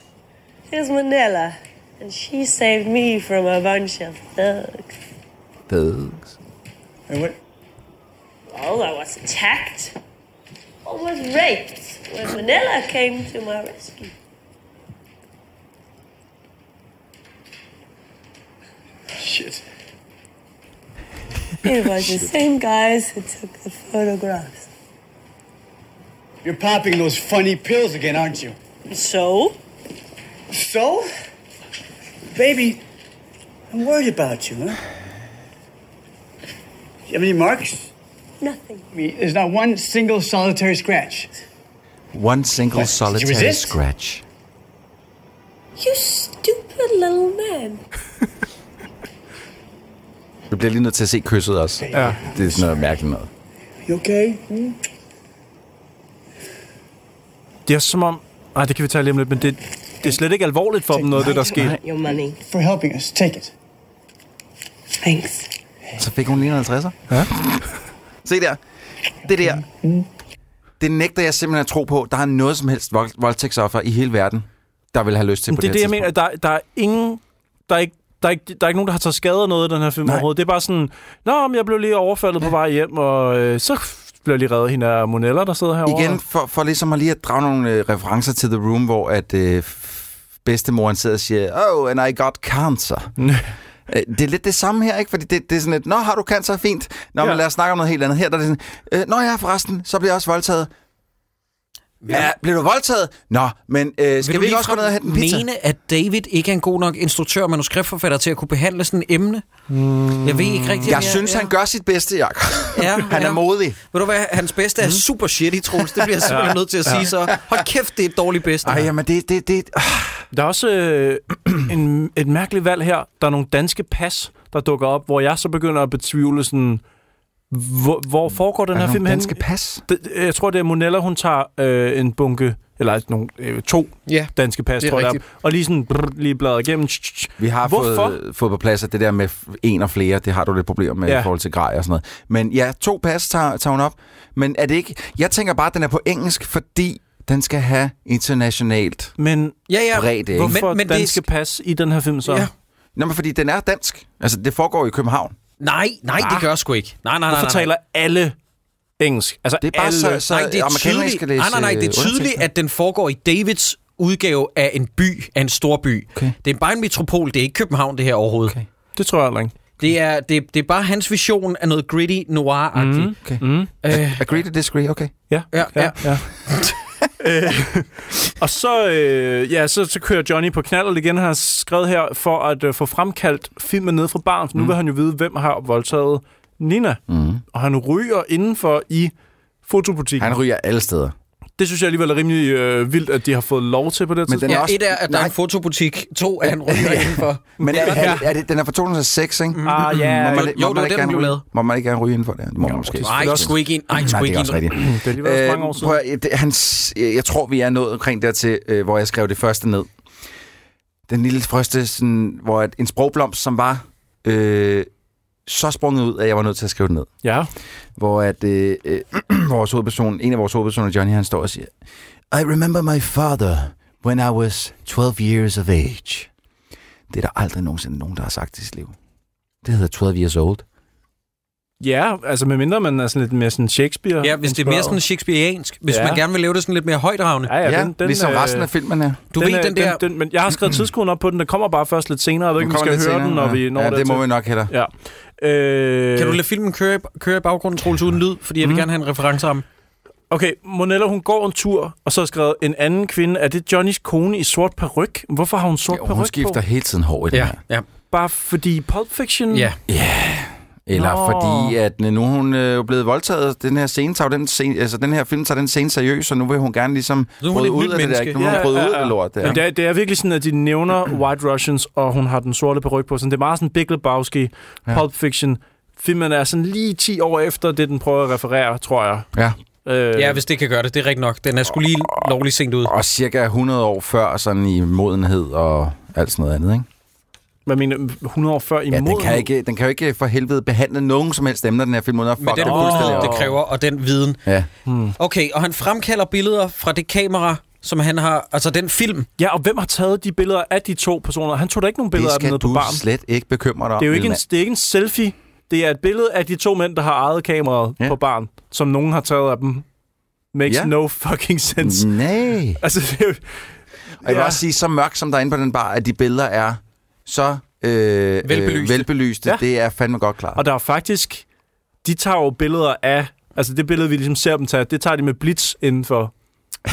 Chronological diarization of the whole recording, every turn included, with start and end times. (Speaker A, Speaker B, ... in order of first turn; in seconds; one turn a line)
Speaker A: 0.7-5.0
Speaker B: 5.7-6.3
Speaker C: 7.1-7.4
Speaker A: 8.5-9.9
Speaker A: 10.8-14.1
Speaker C: 19.2-19.6
Speaker A: 21.6-24.7
Speaker C: 26.4-28.6
Speaker A: 28.9-29.6
Speaker C: 30.5-31.1
Speaker C: 32.3-32.8
Speaker C: 33.7-34.8
Speaker C: 37.1-37.9
Speaker A: 38.4-38.9
Speaker C: 38.9-41.3
Speaker B: 42.1-44.2
Speaker C: 42.7-43.8
Speaker A: 45.8-47.8
Speaker B: 50.5-53.3
Speaker C: 51.9-52.7
Speaker D: 51.9-52.2
Speaker C: 53.9-54.8
Speaker D: 57.7-61.8
Speaker C: 60.9-61.5
Speaker A: 61.8-62.4
Speaker C: 62.4-63.5
Speaker A: 65.0-65.5
Speaker B: 66.0-67.7
Speaker B: 68.2-68.6
Speaker B: 69.2-69.6
Speaker C: 69.4-70.0
Speaker B: 70.8-76.1
Speaker D: 75.5-86.2
Speaker B: 85.8-93.1
Speaker D: 93.2-93.4
Speaker B: 93.9-100.7
Speaker E: 102.0-102.3
Speaker B: 102.1-105.5
Speaker E: 104.2-109.5
Speaker D: 109.7-111.1
Speaker E: 110.2-111.4
Speaker B: 110.8-113.8
Speaker E: 112.7-118.8
Speaker D: 116.3-117.1
Speaker B: 118.6-120.2
Speaker D: 120.3-126.8
Speaker D: 127.5-138.2
Speaker B: 128.7-129.8
Speaker E: 134.1-135.2
Speaker B: 137.4-149.1
Speaker D: 149.2-149.6
Speaker E: 149.7-151.2
Speaker B: 149.9-150.6
Speaker D: 150.3-152.5
Speaker E: 152.2-152.5
Speaker B: 152.9-155.3
Speaker E: 155.6-157.7
Speaker D: 156.2-156.5
Speaker D: 157.3-158.3
Speaker D: 159.0-160.2
Speaker B: 159.6-162.5
Speaker E: 160.3-168.5
Speaker D: 168.9-169.5
Speaker E: 169.8-173.1
Speaker D: 172.7-173.7
Speaker B: 173.2-175.1
Speaker E: 173.8-174.2
Speaker D: 175.3-176.3
Speaker E: 175.5-176.7
Speaker D: 177.2-187.0
Speaker B: 187.1-187.4
Speaker D: 187.5-189.1
Speaker D: 189.6-190.3
Speaker B: 190.2-191.1
Speaker D: 191.6-194.7
Speaker B: 194.3-195.3
Speaker E: 194.5-198.2
Speaker B: 196.6-209.9
Speaker D: 197.6-198.3
Speaker E: 199.6-201.4
Speaker D: 199.6-200.5
Speaker D: 202.7-203.5
Speaker E: 203.0-204.7
Speaker D: 204.7-206.0
Speaker B: 211.1-214.9
Speaker B: 215.4-217.1
Speaker D: 217.2-217.5
Speaker B: 218.0-221.7
Speaker B: 222.3-226.3
Speaker B: 227.1-228.9
Speaker B: 229.6-230.6
Speaker D: 231.8-235.0
Speaker E: 234.2-237.5
Speaker D: 235.9-236.2
Speaker D: 237.4-238.7
Speaker B: 237.6-239.2
Speaker E: 239.3-240.0
Speaker D: 239.3-246.4
Speaker B: 242.6-244.7
Speaker E: 246.2-249.6
Speaker D: 248.6-248.8
Speaker D: 250.3-256.6
Speaker B: 255.9-257.6
Speaker E: 257.3-257.9
Speaker D: 258.1-259.7
Speaker E: 259.5-259.8
Speaker B: 259.9-269.6
Speaker D: 260.9-261.8
Speaker E: 267.4-268.6
Speaker D: 268.4-279.3
Speaker D: 279.8-280.4
Speaker E: 280.1-282.9
Speaker B: 282.0-282.3
Speaker B: 282.8-286.9
Speaker D: 287.6-289.5
Speaker B: 288.9-293.5
Speaker E: 292.4-294.4
Speaker D: 292.6-293.6
Speaker D: 294.9-295.1
Speaker E: 295.2-299.3
Speaker D: 299.4-303.0
Speaker B: 302.1-304.4
Speaker D: 304.0-309.8
Speaker D: 310.5-312.1
Speaker B: 310.6-310.9
Speaker B: 311.8-312.8
Speaker D: 312.8-313.7
Speaker D: 314.2-314.6
Speaker B: 314.2-320.6
Speaker E: 318.4-319.1
Speaker D: 320.6-321.4
Speaker D: 322.0-326.3